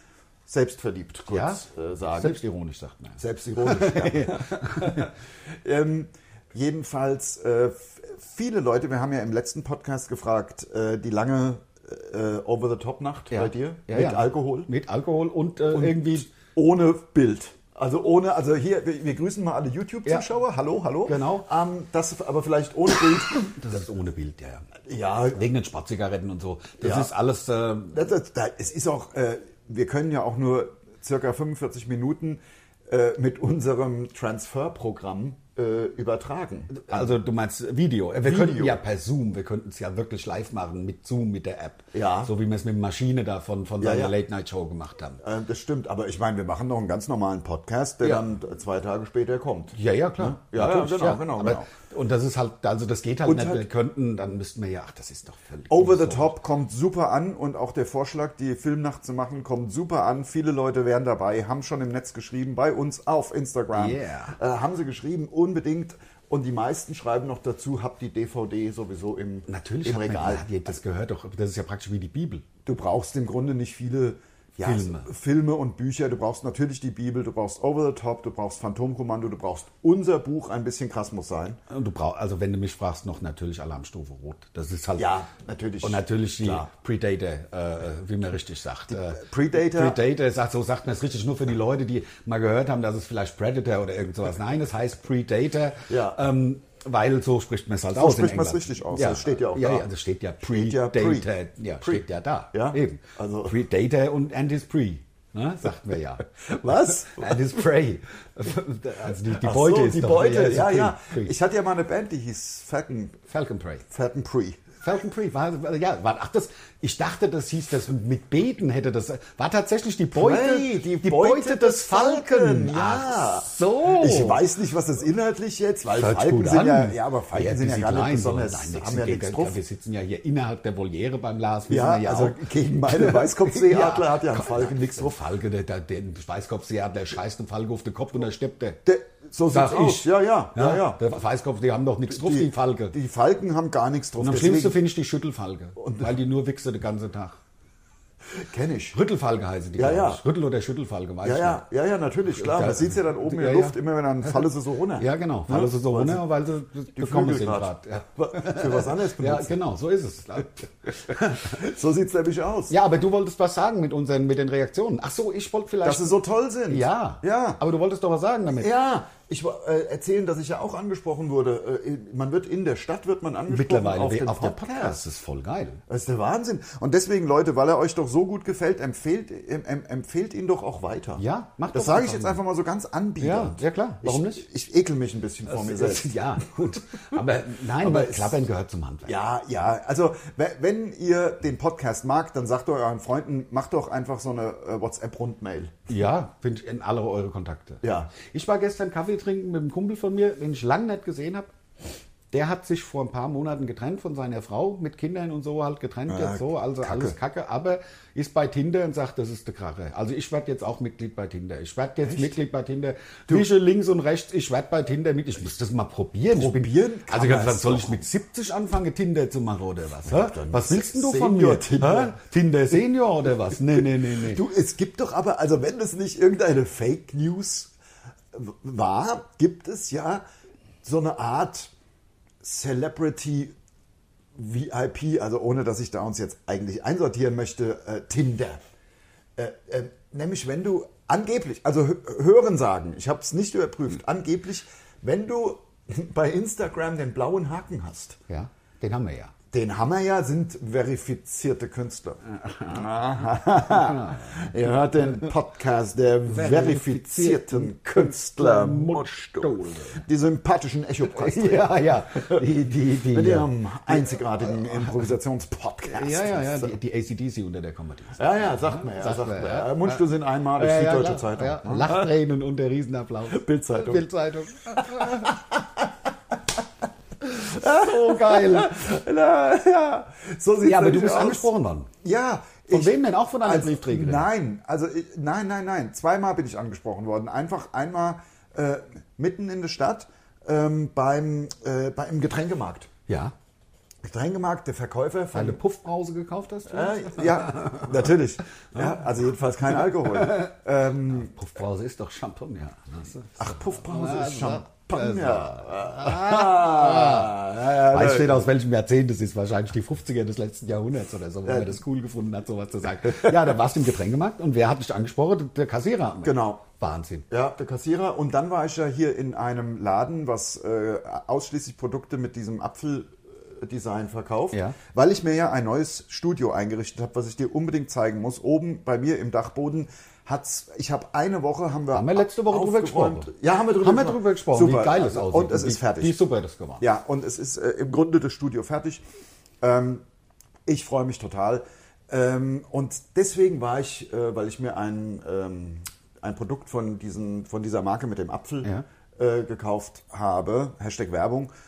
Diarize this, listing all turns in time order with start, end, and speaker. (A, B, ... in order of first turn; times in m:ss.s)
0:00.5-0:02.4 A
0:01.3-0:05.1 B
0:03.2-0:14.7 A
0:13.3-0:16.3 B
0:15.7-0:23.5 A
0:21.1-0:21.5 B
0:23.3-0:24.8 B
0:24.8-0:25.5 A
0:25.3-0:28.0 B
0:26.8-0:27.1 A
0:27.9-0:37.2 A
0:36.7-0:45.2 B
0:38.2-0:38.8 A
0:41.9-0:42.3 A
0:43.8-0:44.1 A
0:45.2-0:51.7 A
0:49.7-0:56.3 B
0:53.2-0:53.7 A
0:55.7-1:10.7 A
1:03.7-1:04.4 B
1:09.5-1:12.5 B
1:12.6-1:21.6 A
1:14.6-1:15.1 B
1:21.7-1:25.1 B
1:25.0-1:26.7 A
1:25.8-1:51.3 B
1:28.9-1:30.0 A
1:35.9-1:36.2 A
1:37.9-1:39.9 A
1:40.4-1:41.3 A
1:41.8-1:43.6 A
1:46.4-1:47.5 A
1:49.3-1:53.2 A
1:53.3-1:53.8 B
1:53.9-1:54.7 A
1:54.8-2:04.4 B
2:00.1-2:09.6 A
2:05.9-2:18.8 B
2:11.7-2:15.2 A
2:18.8-2:21.0 A
2:19.5-2:23.0 B
2:22.1-2:24.8 A
2:24.2-2:27.4 B
2:25.8-2:26.1 A
2:28.3-2:29.0 A
2:28.9-2:31.6 B
2:29.8-2:30.2 A
2:31.2-2:36.2 A
2:32.3-2:34.4 B
2:35.0-2:41.6 B
2:37.0-2:39.6 A
2:41.4-2:42.7 A
2:42.7-2:46.2 B
2:45.8-2:47.6 A
2:46.7-2:48.7 B
2:48.5-2:55.0 A
2:53.5-2:55.8 B
2:55.9-3:06.4 A
3:01.2-3:02.4 B
3:03.2-3:04.4 B
3:05.4-3:09.2 B
3:07.7-3:08.4 A
3:09.0-3:15.8 A
3:15.9-3:21.5 B
3:17.8-3:18.1 A
3:22.3-3:44.4 B
3:26.1-3:27.2 A
3:32.0-3:32.4 A
3:36.3-3:38.0 A
3:40.0-3:42.2 A
3:43.7-3:47.7 A
3:48.3-3:50.2 A
3:50.8-3:51.7 A
3:52.4-3:53.6 A
3:54.3-3:58.6 A
3:59.4-4:08.2 A
4:08.3-4:09.3 B
4:09.5-4:22.5 A
4:12.4-4:12.8 B
4:13.7-4:14.5 B
4:15.0-4:15.3 B
4:16.3-4:20.0 B
4:21.1-4:24.9 B
4:23.1-4:26.7 A
4:25.9-4:35.4 B
4:28.2-4:32.1 A
4:33.3-4:34.1 A
4:34.8-4:35.9 A
4:37.3-4:38.8 B
4:37.3-4:41.5 A
4:40.6-4:41.9 B
4:42.0-4:52.9 A
4:42.7-4:44.2 B
4:53.1-4:53.3 B
4:54.0-4:55.6 A
4:55.3-4:57.9 B
4:56.7-5:01.3 A
5:00.1-5:00.5 B
5:01.1-5:17.2 B
5:03.4-5:08.5 A
5:11.4-5:11.8 A
5:16.2-5:16.6 A
5:17.3-5:36.1 A
5:24.5-5:24.8 B
5:31.9-5:36.8 B
5:36.8-5:39.0 A
5:39.6-5:40.0 A
5:40.6-5:51.5 A